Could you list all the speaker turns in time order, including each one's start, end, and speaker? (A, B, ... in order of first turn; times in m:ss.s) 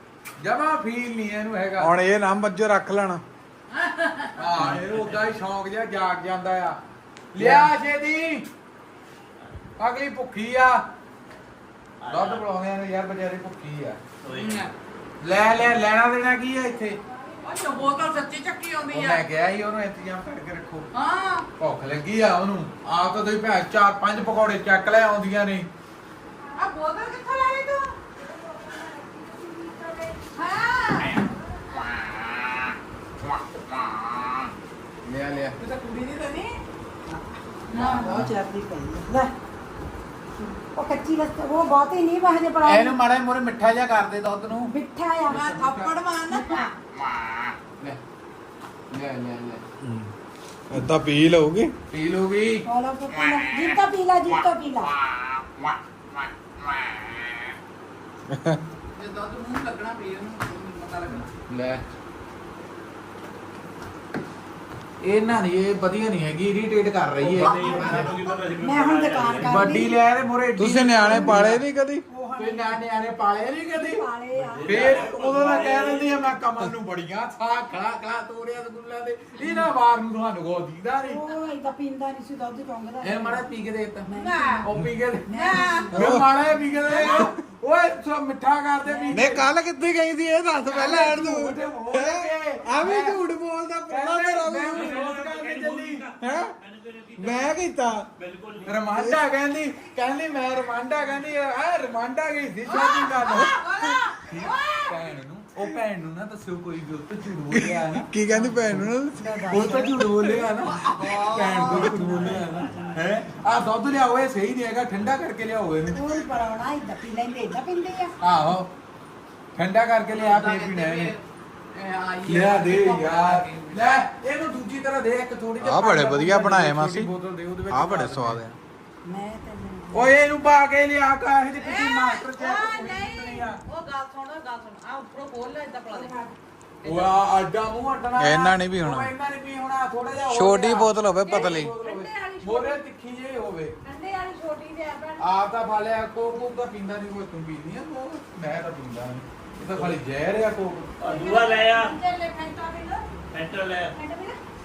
0:00.4-0:01.9 A
0:01.8-0:03.2 B
0:03.7-0:04.4 C
0:04.4-0:06.8 A
0:04.4-0:05.4 D
0:07.3-0:08.4 A
0:07.4-0:07.7 B
0:09.8-0:10.8 A
0:12.0-0:12.5 D
0:12.1-0:14.0 A
0:14.2-0:14.7 D
0:14.4-0:14.7 C
0:15.2-0:17.0 A
0:17.4-0:19.2 C
0:18.9-0:20.9 A
0:20.9-0:21.5 C
0:21.6-0:25.7 A
0:26.6-0:28.0 C
0:28.2-0:30.3 E
0:30.3-0:31.3 C
0:33.2-0:34.5 A
0:35.0-0:35.6 A
0:35.6-0:36.6 C
0:37.7-0:39.3 E
0:37.8-0:38.3 A
0:40.4-0:43.0 E
0:42.6-0:44.7 A
0:44.6-0:45.5 E
0:45.3-0:46.0 A
0:45.3-0:46.7 C
0:46.3-0:46.7 E
0:48.9-0:49.6 A
0:50.7-0:51.7 B
0:51.9-0:52.6 A
0:52.6-0:54.9 E
0:58.3-0:58.6 B
0:58.9-1:01.3 C
1:01.5-1:01.8 A
1:05.0-1:08.1 A
1:07.2-1:09.7 D
1:07.4-1:10.0 E
1:09.4-1:11.6 A
1:10.6-1:12.0 B
1:11.0-1:11.4 E
1:12.1-1:12.8 E
1:12.4-1:14.1 A
1:13.7-1:15.1 E
1:14.4-1:16.3 D
1:14.7-1:21.2 A
1:21.0-1:23.4 E
1:23.0-1:24.1 A
1:24.1-1:24.7 E
1:24.2-1:24.6 C
1:24.6-1:29.5 A
1:25.3-1:25.9 E
1:25.5-1:25.9 C
1:25.9-1:26.3 B
1:26.9-1:27.2 E
1:28.8-1:29.3 E
1:29.1-1:35.1 B
1:30.7-1:33.2 A
1:33.9-1:36.1 A
1:34.7-1:37.6 D
1:36.2-1:36.5 B
1:37.2-1:38.1 B
1:38.2-1:38.8 D
1:38.6-1:48.1 A
1:38.9-1:39.2 B
1:42.7-1:45.0 C
1:47.5-1:49.3 B
1:48.3-1:50.5 E
1:49.5-1:56.0 A
1:50.7-1:51.7 C
1:51.0-1:53.6 D
1:55.9-1:58.2 E
1:58.2-1:58.7 A
1:59.6-2:01.1 A
2:00.1-2:01.2 C
2:01.7-2:03.9 C
2:02.3-2:08.4 A
2:05.6-2:07.1 B
2:07.7-2:08.6 B
2:09.0-2:10.1 E
2:09.9-2:13.6 A
2:11.6-2:16.1 C
2:15.9-2:16.4 E
2:16.8-2:23.8 A
2:16.9-2:17.1 C
2:18.2-2:19.1 B
2:20.3-2:21.8 B
2:21.6-2:22.8 E
2:23.8-2:25.2 E
2:25.2-2:30.9 A
2:31.0-2:31.9 D
2:31.0-2:33.1 E
2:33.3-2:34.0 D
2:33.9-2:34.4 E